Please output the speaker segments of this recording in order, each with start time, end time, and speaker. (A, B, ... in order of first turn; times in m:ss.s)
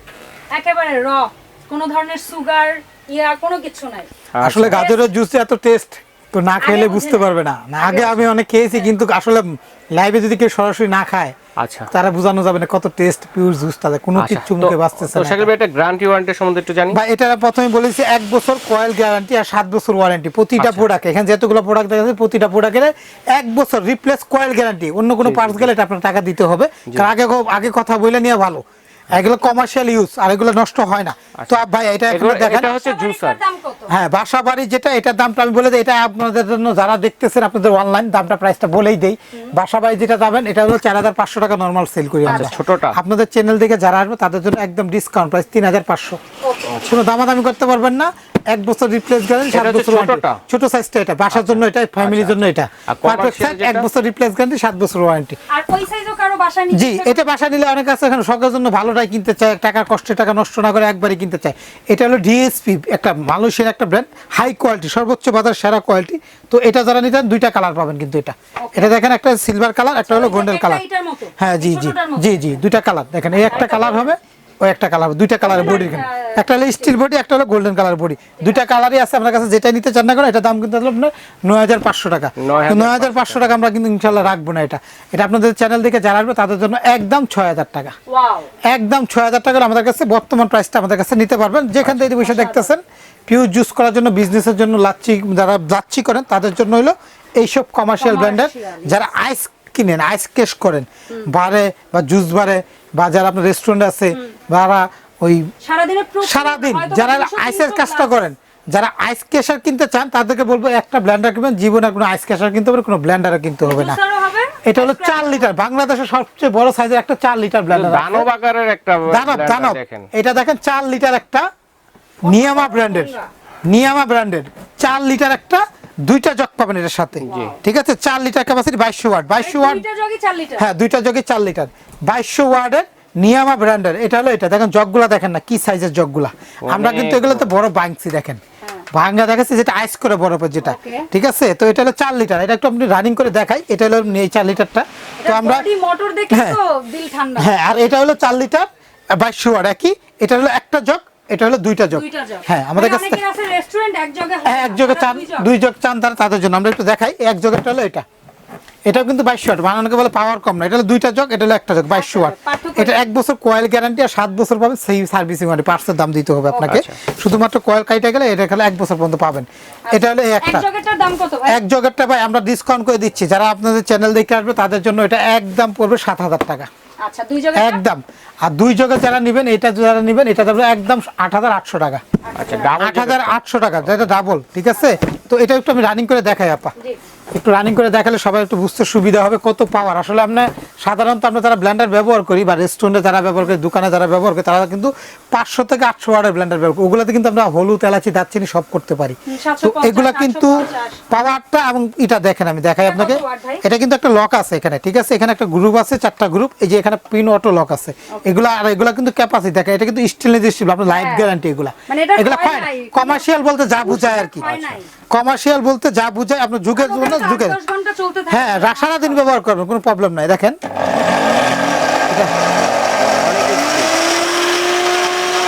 0:00.5-0:04.1 A
0:04.3-0:04.8 B
0:04.4-0:11.4 C
0:04.7-0:05.1 A
0:06.6-0:07.3 A
0:07.8-0:08.2 A
0:11.6-0:11.9 B
0:11.9-0:15.5 C
0:14.2-0:17.0 B
0:16.9-0:32.7 C
0:20.6-0:20.9 B
0:25.2-0:25.7 B
0:31.4-0:33.4 B
0:32.8-0:33.9 A
0:33.9-0:46.2 C
0:42.2-0:43.0 B
0:42.2-0:42.6 A
0:46.4-0:46.8 A
0:46.7-0:47.0 B
0:46.8-0:55.4 C
0:49.5-0:50.4 B
0:51.3-0:53.9 B
0:55.5-0:57.3 A
0:56.7-1:10.8 C
1:08.6-1:08.9 A
1:10.0-1:12.4 A
1:11.4-1:27.9 C
1:13.4-1:14.2 A
1:15.4-1:16.9 A
1:22.4-1:23.5 B
1:28.1-1:28.6 A
1:28.6-1:45.5 C
1:31.8-1:32.1 B
1:32.2-1:32.7 A
1:38.0-1:39.1 A
1:45.6-1:48.2 A
1:46.2-1:54.0 C
1:53.6-1:55.6 A
1:54.6-1:58.3 C
1:57.7-2:00.1 B
1:59.1-2:01.4 C
2:02.2-2:09.8 C
2:02.2-2:03.3 A
2:07.2-2:07.6 B
2:07.3-2:07.6 A
2:09.4-2:10.7 A
2:10.6-2:25.7 C
2:16.6-2:17.5 B
2:20.6-2:21.1 A
2:25.2-2:27.5 A
2:26.3-2:26.6 C
2:27.4-2:33.2 C
2:31.9-2:35.5 A
2:34.4-2:38.0 C
2:38.8-2:50.6 C
2:41.9-2:43.1 A
2:46.6-2:47.0 B
2:49.9-2:51.6 A
2:51.5-2:56.7 C
2:57.0-2:57.8 A
2:57.6-3:02.0 C
3:02.3-3:02.8 A
3:02.4-3:04.0 B
3:02.7-3:06.7 C
3:07.3-3:34.5 C
3:19.3-3:21.1 A
3:22.8-3:23.6 A
3:28.1-3:28.4 A
3:30.9-3:31.3 A
3:31.9-3:33.2 A
3:33.8-3:34.9 A
3:34.4-3:34.8 B
3:35.0-3:37.6 C
3:36.8-3:39.3 A
3:38.3-3:40.6 C
3:42.1-3:42.3 C
3:43.0-3:43.9 B